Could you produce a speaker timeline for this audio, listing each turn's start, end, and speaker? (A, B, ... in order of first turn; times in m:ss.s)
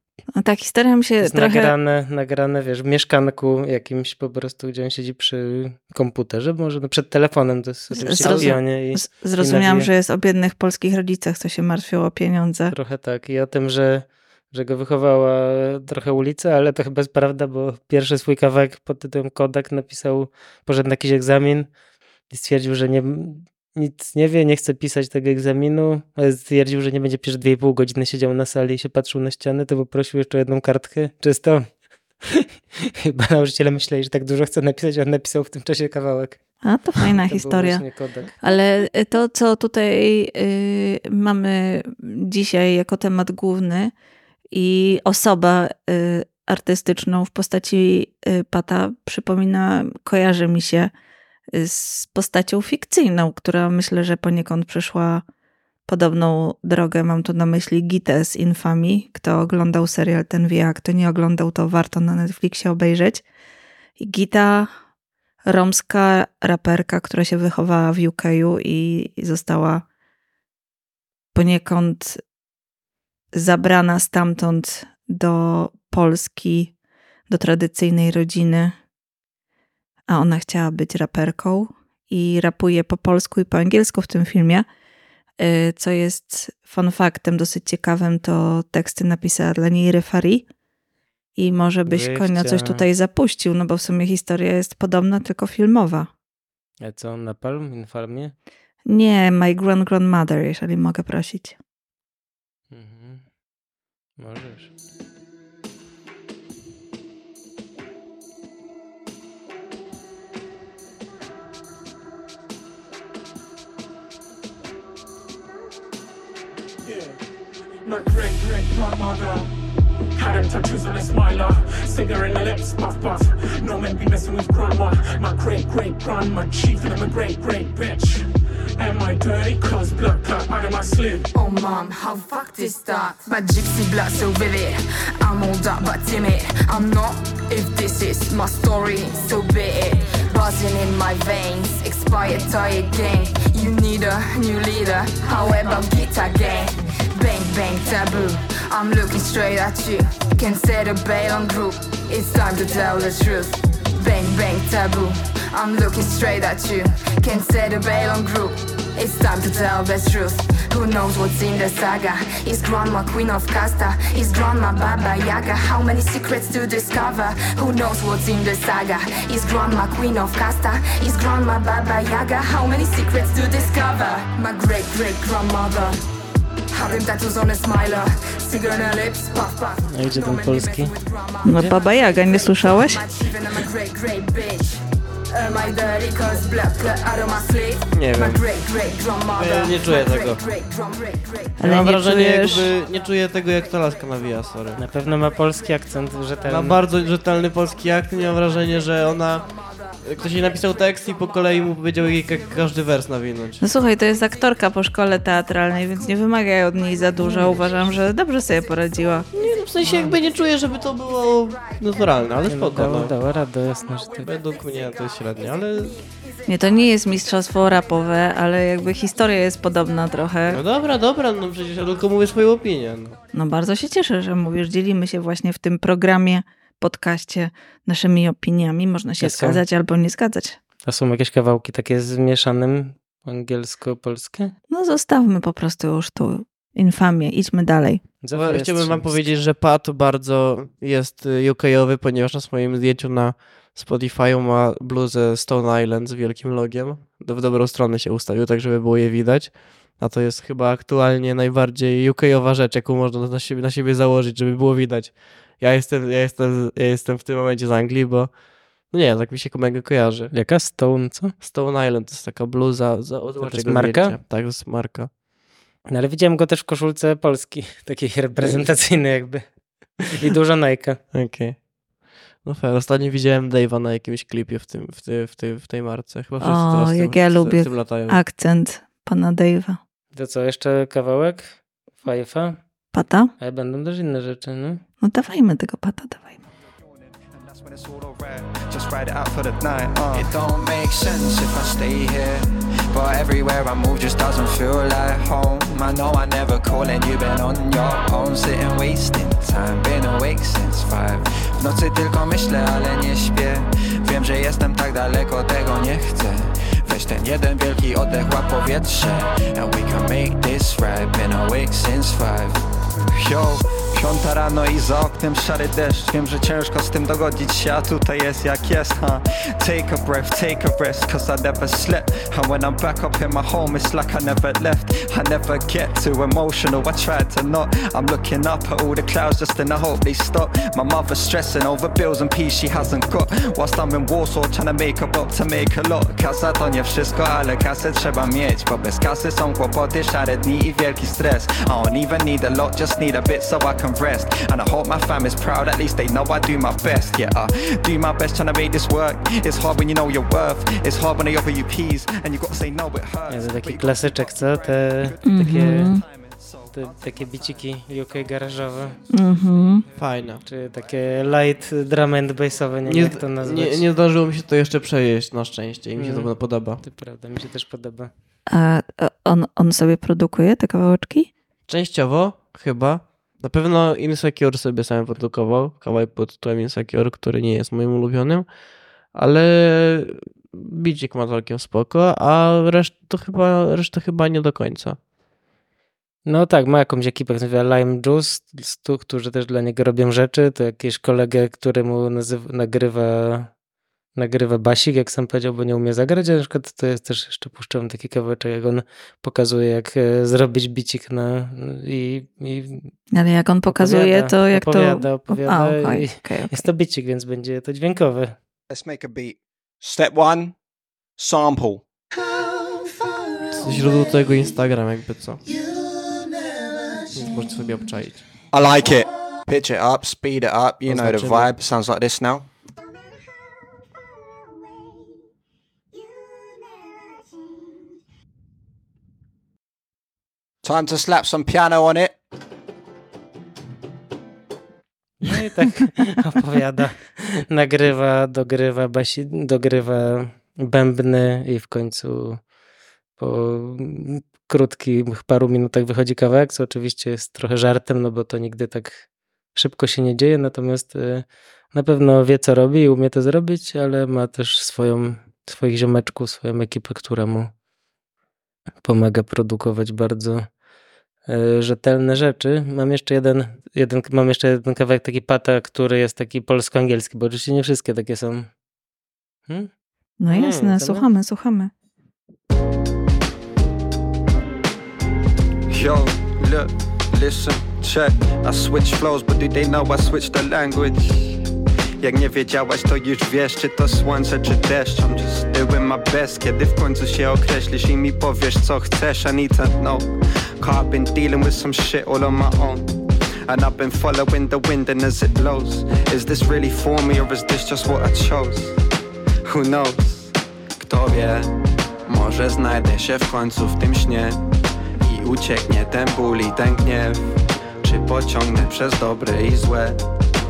0:00.4-0:01.7 A
0:01.2-0:09.9 B
0:07.9-0:12.7 A
0:08.0-0:08.5 C
0:12.7-0:21.7 B
0:22.3-0:31.7 B
0:33.0-0:36.4 B
0:36.6-0:37.8 A
0:37.2-0:38.3 B
0:38.4-0:43.9 A
0:44.5-0:50.9 A
0:51.6-0:55.2 A
0:55.9-1:03.2 A
1:04.0-1:04.7 A
1:05.5-1:09.8 A
1:11.4-1:12.2 A
1:13.4-1:16.7 A
1:17.3-1:18.8 A
1:20.1-1:24.7 A
1:25.4-1:30.5 A
1:31.4-1:36.1 A
1:31.9-1:32.8 B
1:36.8-1:38.3 B
1:38.9-1:41.6 A
1:42.7-1:43.3 B
1:44.2-1:44.7 B
1:56.9-1:57.2 D
1:57.8-1:59.5 D
2:00.2-2:08.3 D
2:08.8-2:11.3 D
2:11.3-2:56.0 E
2:56.7-3:11.6 E
2:59.9-3:00.9 B
3:01.4-3:03.0 A
3:08.0-3:08.4 C
3:09.4-3:10.4 C
3:11.6-3:12.7 A
3:11.6-3:14.8 C
3:14.8-3:16.8 B
3:16.5-3:19.5 C
3:19.5-3:19.8 E
3:20.0-3:23.6 C
3:23.6-3:29.3 A
3:27.2-3:27.6 B
3:29.3-3:33.1 C
3:29.8-3:30.1 B
3:32.5-3:34.3 B
3:34.2-3:36.0 C
3:36.5-3:40.6 A
3:40.5-3:43.2 C
3:43.3-3:50.6 A
3:49.2-3:49.6 B
3:50.8-3:54.5 B
3:54.7-3:58.0 A
3:58.2-3:59.3 B
3:58.3-4:20.3 C
4:20.3-4:21.4 B
4:21.4-4:25.1 C
4:23.4-4:24.2 B
4:25.9-4:31.0 B
4:31.1-4:31.7 C
4:32.4-4:38.2 C
4:36.4-4:39.8 A
4:40.1-4:42.6 B
4:42.9-4:43.3 A
4:43.4-4:44.8 B
4:45.0-4:46.4 A
4:47.1-5:57.7 F
5:53.3-5:55.9 B
5:55.2-5:56.0 A
5:56.7-5:59.0 B
5:59.1-5:59.8 A
5:59.5-5:59.9 F
6:00.0-6:00.4 C
6:00.4-6:03.8 B
6:02.9-6:06.8 C
6:06.0-6:06.3 B
6:06.8-6:08.1 B
6:08.5-6:11.3 A
6:11.7-6:18.5 C
6:19.1-6:25.0 C
6:26.3-6:33.5 B
6:34.2-6:42.9 B
6:43.1-6:46.6 A
6:43.7-6:48.4 B
6:48.7-6:49.3 G
6:49.8-6:50.5 G
6:51.2-6:51.8 G
6:53.6-6:55.4 C
6:57.1-6:58.2 C
6:58.6-6:58.9 G
6:59.5-7:02.2 G
7:00.8-7:01.5 C
7:10.7-7:11.7 G
7:15.2-7:22.4 B
7:23.2-7:29.0 B
7:29.6-7:37.5 B
7:38.8-7:40.4 B
7:41.3-7:48.5 B
7:50.2-7:51.7 A
7:50.3-7:50.7 C
7:55.7-8:01.4 F
8:02.0-8:12.9 F
8:13.5-8:18.8 F
8:19.4-8:21.6 F
8:22.1-8:24.4 F
8:25.0-8:30.0 F